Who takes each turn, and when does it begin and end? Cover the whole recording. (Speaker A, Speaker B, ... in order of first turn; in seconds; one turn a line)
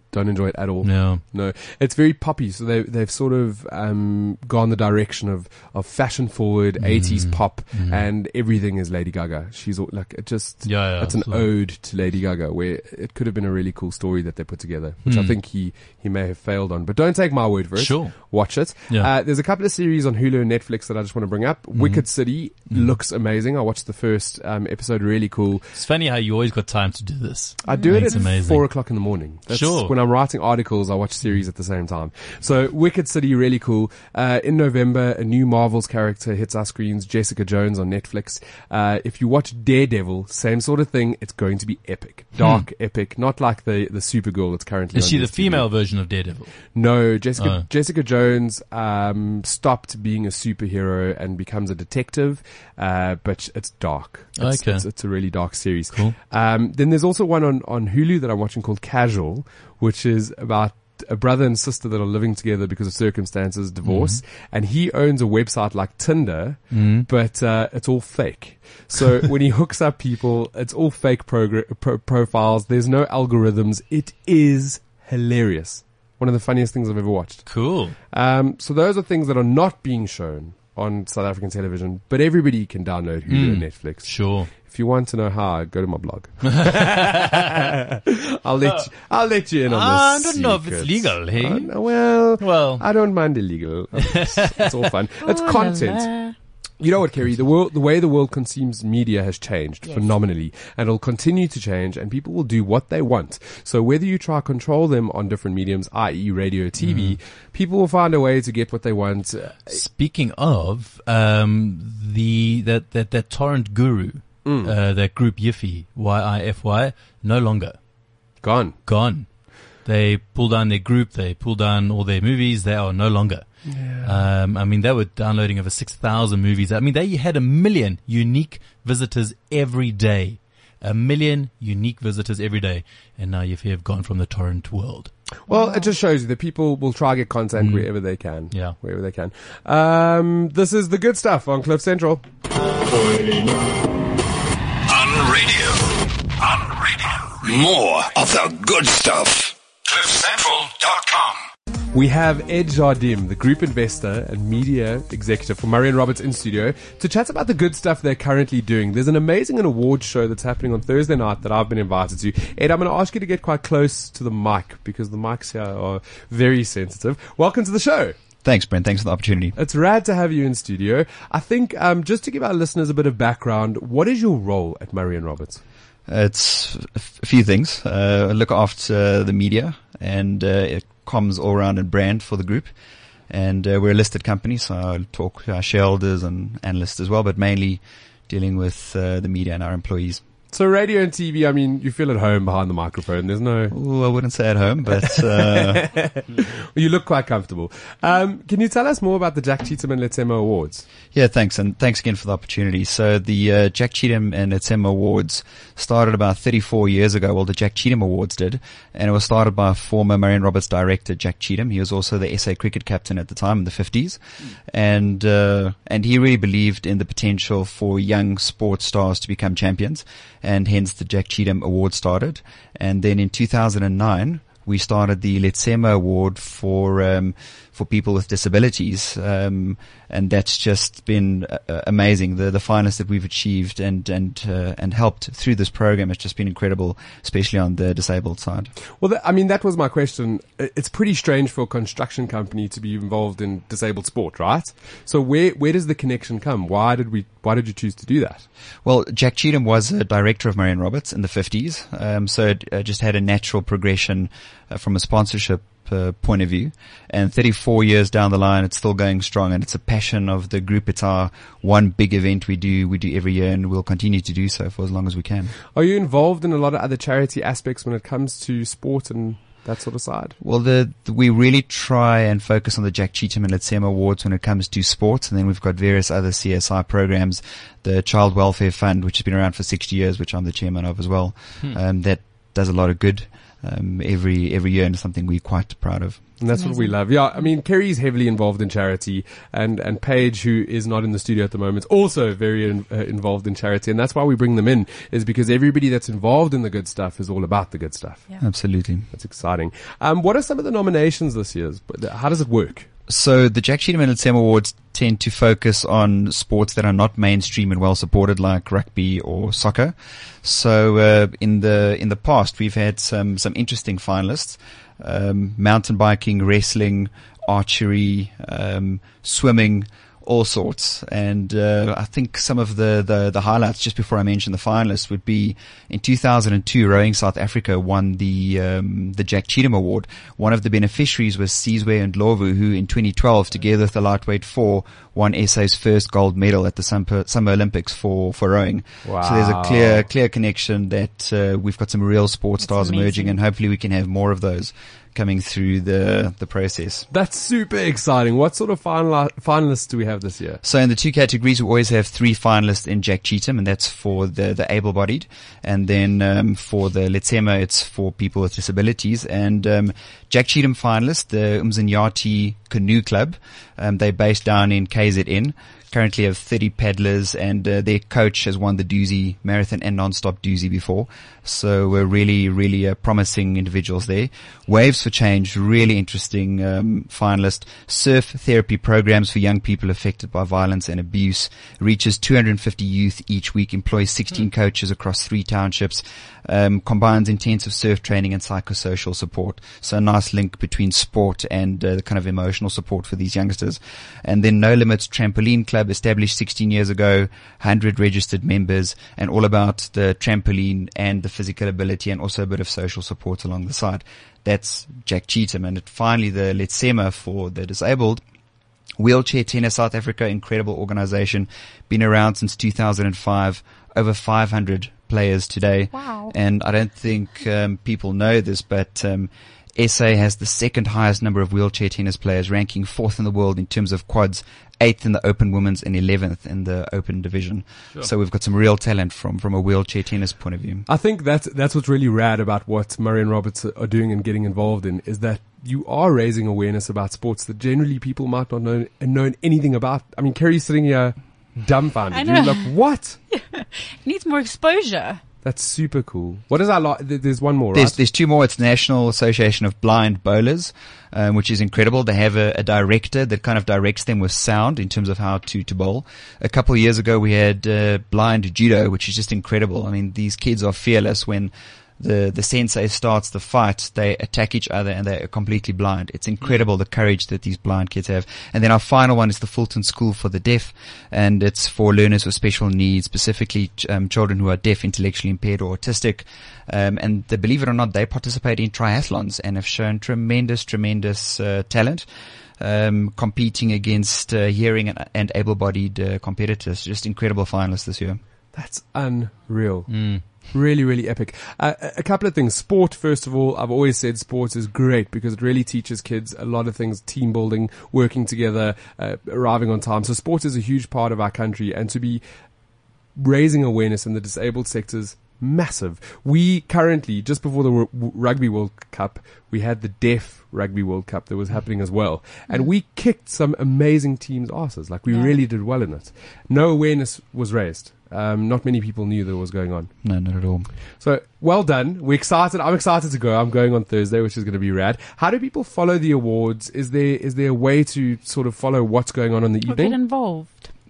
Speaker A: 0.1-25.7
Speaker B: 0.8-1.2
Speaker B: 6.8-8.1
Speaker B: 10.7-11.5
Speaker B: 15.1-15.3
Speaker B: 17.8-18.3
Speaker B: 21.8-22.0
Speaker B: 25.8-28.7
Speaker A: 27.6-45.7
Speaker C: 27.7-28.2
Speaker B: 29.5-29.9
Speaker B: 42.4-42.6
Speaker B: 44.9-46.7
Speaker A: 46.7-77.5
Speaker B: 47.4-47.7
Speaker B: 54.4-54.9
Speaker B: 63.9-64.2
Speaker B: 66.7-67.1
Speaker B: 77.5-78.0
Speaker A: 78.1-96.1
Speaker B: 83.3-84.5
Speaker B: 86.5-87.6
Speaker B: 89.7-91.8
Speaker B: 92.4-92.8
Speaker B: 94.0-94.9
Speaker C: 95.2-96.3
Speaker A: 96.8-109.8
Speaker B: 106.8-107.2
Speaker B: 109.7-117.8
Speaker A: 114.5-114.7
Speaker A: 118.4-118.8
Speaker B: 118.9-119.3
Speaker B: 119.8-123.5
Speaker A: 123.7-124.2
Speaker B: 124.0-135.1
Speaker A: 135.5-142.2
Speaker C: 135.5-135.9
Speaker B: 137.6-137.9
Speaker B: 138.5-138.8
Speaker D: 142.7-143.8
Speaker D: 144.9-151.4
Speaker A: 151.9-168.2
Speaker E: 168.4-169.6
Speaker A: 169.6-175.6
Speaker E: 176.1-182.7
Speaker E: 183.3-190.2
Speaker A: 190.5-193.8
Speaker E: 193.7-195.8
Speaker A: 195.0-200.8
Speaker E: 201.1-214.2
Speaker E: 214.7-238.7
Speaker A: 239.0-248.5
Speaker E: 248.8-265.5
Speaker A: 265.7-270.4
Speaker E: 270.4-286.4
Speaker A: 286.4-298.3
Speaker C: 286.6-286.9
Speaker E: 298.4-299.1
Speaker A: 299.1-302.9
Speaker E: 303.1-347.1
Speaker A: 339.1-340.1
Speaker C: 342.6-343.4
Speaker A: 347.1-350.6
Speaker E: 350.6-408.2
Speaker E: 409.0-430.9
Speaker C: 415.9-416.3
Speaker A: 430.9-443.2
Speaker C: 442.1-442.8
Speaker C: 443.3-445.2
Speaker A: 445.4-448.0
Speaker E: 447.8-482.1
Speaker E: 482.6-488.2
Speaker A: 488.5-502.2
Speaker B: 489.9-490.2
Speaker A: 503.2-519.9
Speaker E: 520.0-520.7
Speaker A: 521.0-530.0
Speaker C: 529.6-530.7